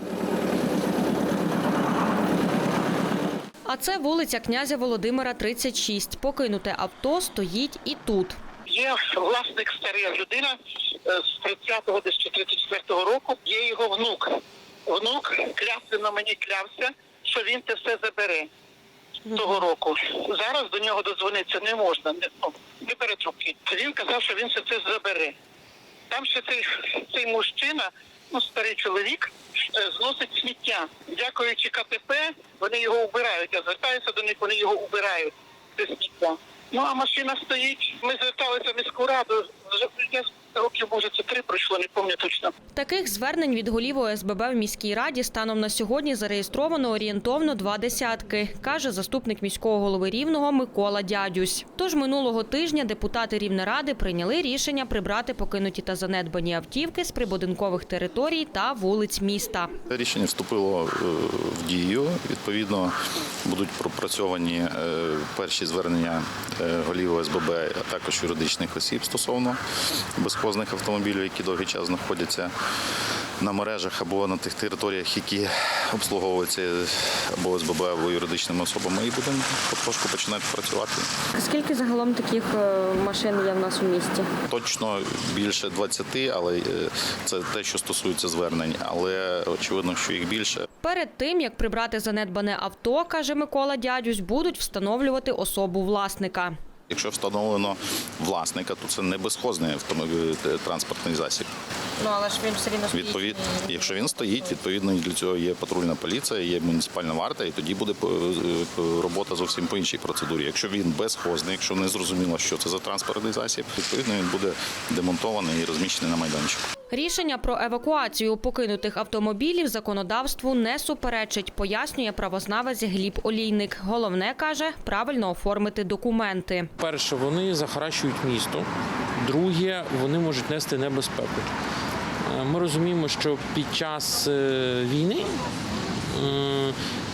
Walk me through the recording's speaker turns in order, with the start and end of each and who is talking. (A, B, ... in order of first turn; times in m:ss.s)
0:03.6-0:08.4 A
0:08.7-0:14.3 B
0:14.9-0:18.4 B
0:19.3-0:25.3 B
0:26.1-0:42.5 B
0:42.7-0:59.7 A
0:59.9-1:02.9 C
1:03.4-1:09.6 C
1:10.2-1:12.5 C
1:13.4-1:21.1 C
1:21.4-1:24.3 D
1:24.5-1:30.6 C
1:30.8-1:36.5 A
1:36.9-1:41.5 C
1:42.0-1:44.2 D
1:42.9-1:56.6 C
1:56.9-2:06.7 A
2:06.8-2:11.5 E
2:12.2-2:15.4 E
2:16.1-2:16.8 E